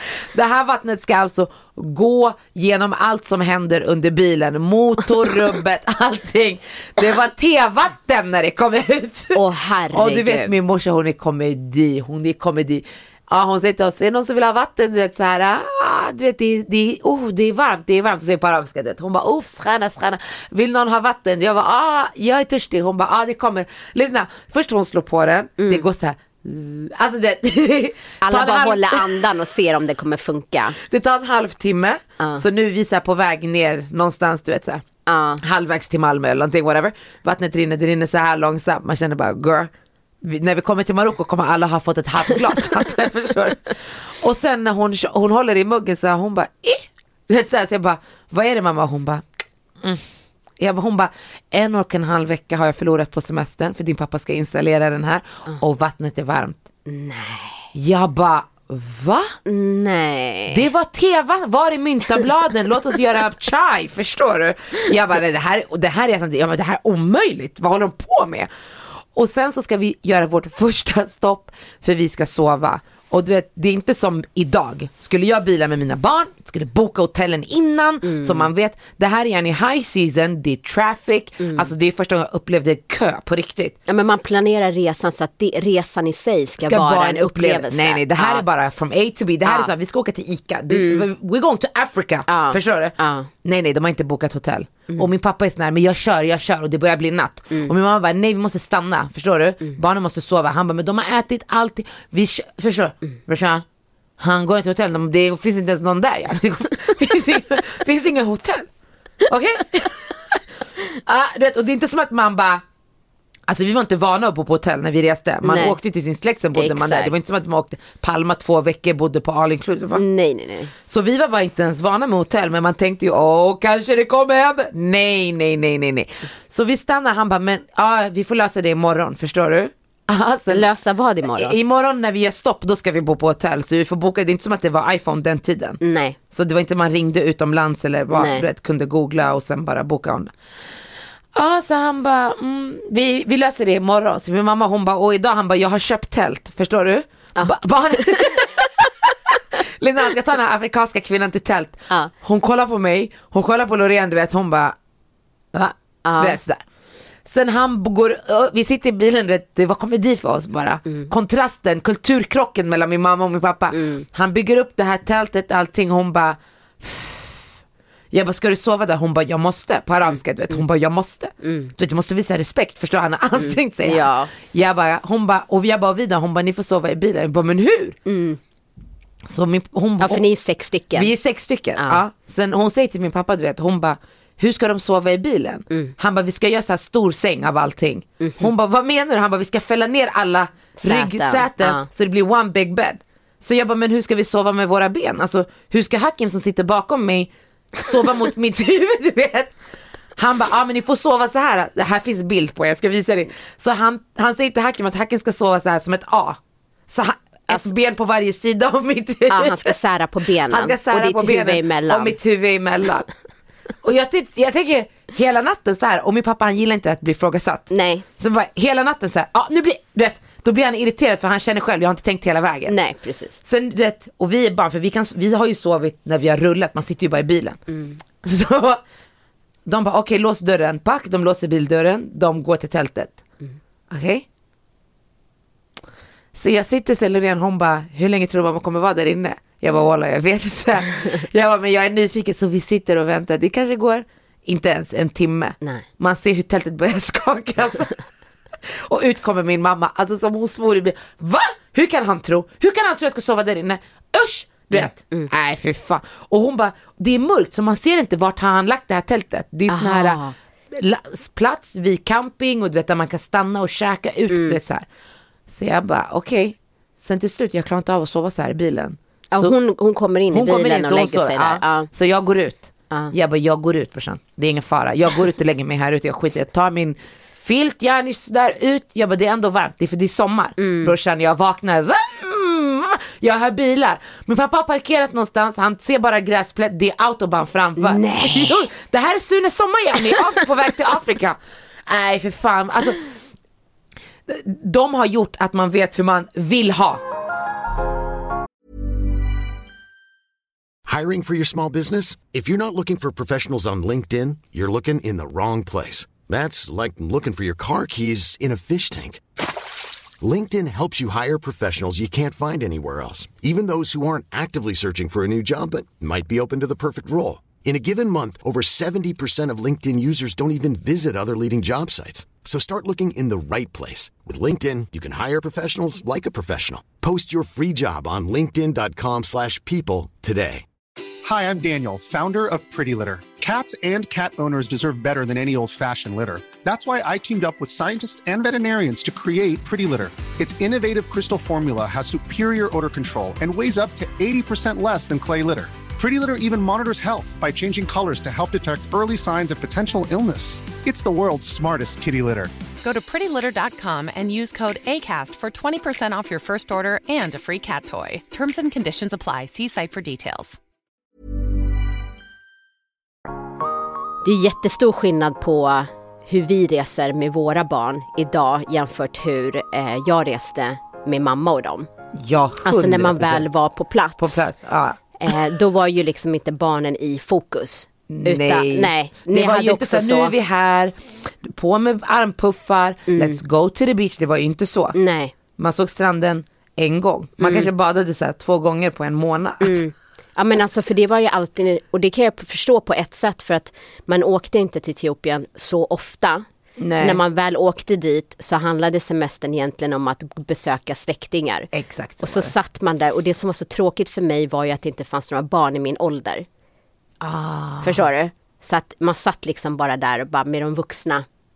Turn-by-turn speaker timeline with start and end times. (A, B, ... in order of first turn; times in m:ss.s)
0:00.3-0:09.4 A
0:09.4-0:10.6 B
0:09.9-0:29.2 A
0:25.6-0:25.8 B
0:28.2-0:30.8 B
0:30.8-0:34.8 A
0:35.1-0:35.4 B
0:35.4-0:39.7 A
0:40.2-0:49.2 A
0:50.6-0:56.6 A
0:56.9-0:57.7 B
0:57.8-0:59.4 A
0:59.5-1:00.7 B
1:00.5-1:23.8 A
1:18.0-1:18.5 B
1:21.4-1:21.7 B
1:23.9-1:28.4 B
1:26.6-1:43.6 A
1:29.4-1:29.7 B
1:30.7-1:31.0 B
1:32.3-1:33.3 B
1:44.2-1:48.7 A
1:49.3-1:50.4 A
1:50.9-1:52.6 A
1:53.5-2:00.0 A
1:55.4-1:55.8 B
1:56.5-1:57.1 B
1:59.9-2:00.7 B
2:00.9-2:10.7 A
2:10.5-2:11.6 B
2:11.3-2:15.8 A
2:15.8-2:16.2 B
2:16.3-2:20.3 A
2:18.1-2:18.4 B
2:21.3-2:34.8 A
2:27.4-2:28.4 B
2:35.5-2:36.6 A
2:36.0-2:36.4 B
2:37.3-2:47.5 A
2:43.7-2:44.1 B
2:48.1-2:58.0 A
2:51.4-2:51.7 B
2:53.4-2:54.3 B
2:58.1-2:58.4 B
2:59.3-3:00.2 A
3:00.0-3:01.1 B
3:00.9-3:19.5 A
3:05.7-3:06.0 B
3:08.2-3:08.5 B
3:10.8-3:11.9 B
3:20.2-3:29.7 A
3:29.3-3:32.2 B
3:30.5-3:33.1 A
3:33.8-3:42.8 A
3:37.7-3:38.0 B
3:42.7-3:43.4 B
3:43.4-3:47.6 A
3:47.7-3:48.0 B
3:48.2-3:48.8 A
3:49.7-3:53.2 A
3:53.9-3:54.2 A
3:56.3-4:08.0 A
4:08.6-4:20.2 A
4:14.7-4:15.3 B
4:19.7-4:20.4 B
4:20.7-4:24.8 A
4:24.3-4:24.6 B
4:25.5-4:29.6 A
4:29.3-4:31.9 B
4:30.3-4:53.0 A
4:40.6-4:40.9 B
4:47.8-4:48.7 B
4:54.3-4:57.0 A
5:00.9-5:09.2 C
5:10.2-5:30.6 C
5:31.2-5:52.5 D
5:52.8-6:00.6 E
6:04.2-6:11.9 B
6:12.2-6:13.4 A
6:12.6-6:14.5 B
6:14.2-6:15.4 A
6:15.2-6:20.3 B
6:18.1-6:25.0 A
6:23.1-6:23.4 B
6:25.0-6:25.3 B
6:25.6-6:29.8 A
6:27.4-6:27.7 B
6:29.6-6:41.7 B
6:36.8-6:37.2 A
6:41.7-6:42.5 A
6:42.2-6:46.5 B
6:47.2-6:48.0 A
6:47.8-6:51.2 B